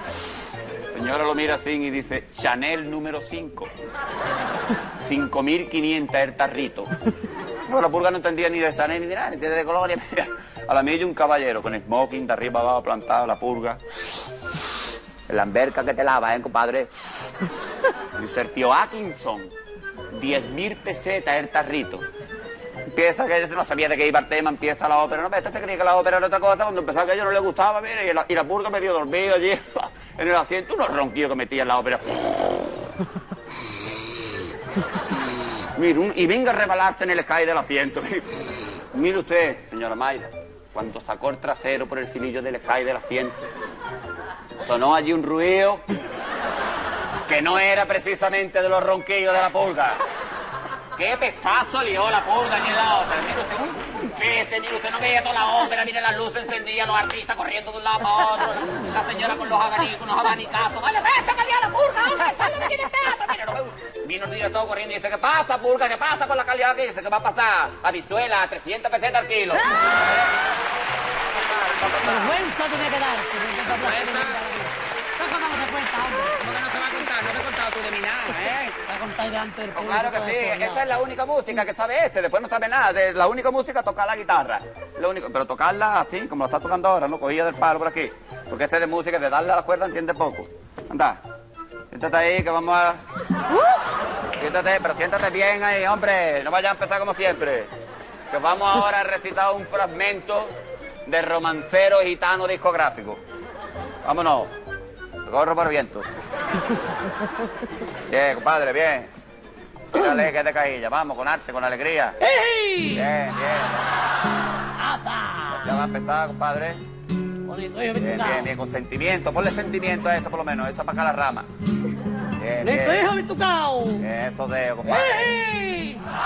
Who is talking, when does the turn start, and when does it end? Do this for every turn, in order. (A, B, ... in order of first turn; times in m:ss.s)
0:00.9-0:03.7 A
0:05.0-0:06.9 A
0:07.7-0:13.8 A
0:15.3-0:16.9 A
0:18.1-0:19.5 A
0:20.1-0:22.1 A
0:22.9-0:32.3 A
0:35.8-0:38.3 A
0:38.9-0:43.4 A
0:44.6-0:45.9 A
0:47.3-0:50.0 A
0:51.0-1:09.6 A
1:11.4-1:12.3 A
1:12.0-1:16.5 B
1:13.6-1:14.4 A
1:16.3-1:18.7 A
1:18.9-1:20.9 B
1:19.7-1:31.2 A
1:31.9-1:33.0 A
1:34.4-1:37.7 A
1:38.3-1:40.5 A
1:41.0-1:43.2 A
1:44.0-1:44.5 A
1:45.2-1:46.1 A
1:48.1-1:49.1 A
1:49.9-1:52.2 A
1:50.0-1:50.3 B
1:52.2-1:53.1 B
1:52.9-1:53.9 A
1:54.8-1:55.7 B
1:55.5-1:56.8 A
1:57.5-1:58.5 B
1:58.0-2:01.5 A
2:02.4-2:03.0 A
2:02.6-2:04.0 B
2:04.0-2:05.3 A
2:04.8-2:06.0 B